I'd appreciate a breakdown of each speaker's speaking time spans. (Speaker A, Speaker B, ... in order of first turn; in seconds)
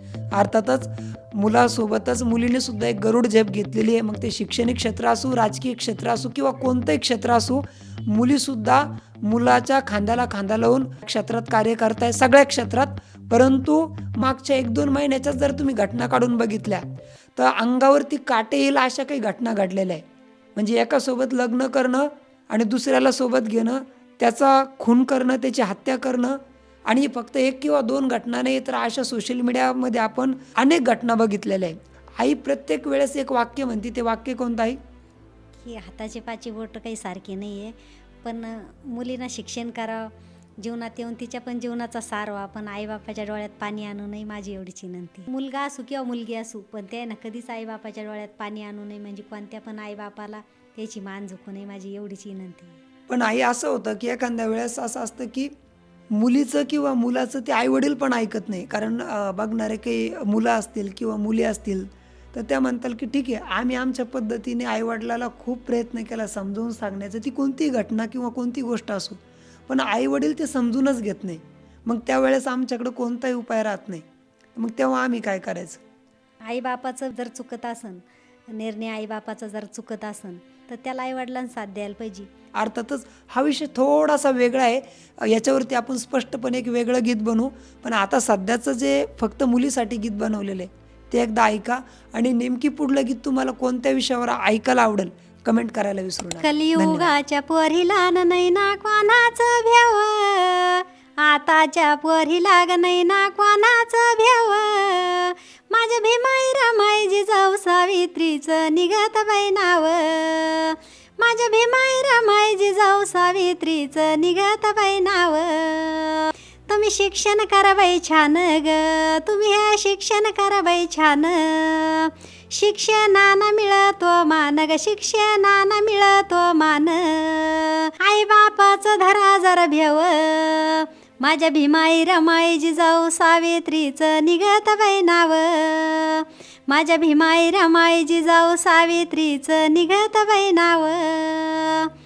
Speaker A: 0.3-16.9, 17.4-20.0, 20.6-34.8, 53.1-55.5, 56.1-75.8, 82.6-97.2
Speaker B: 35.6-52.8, 76.5-82.3, 96.4-141.9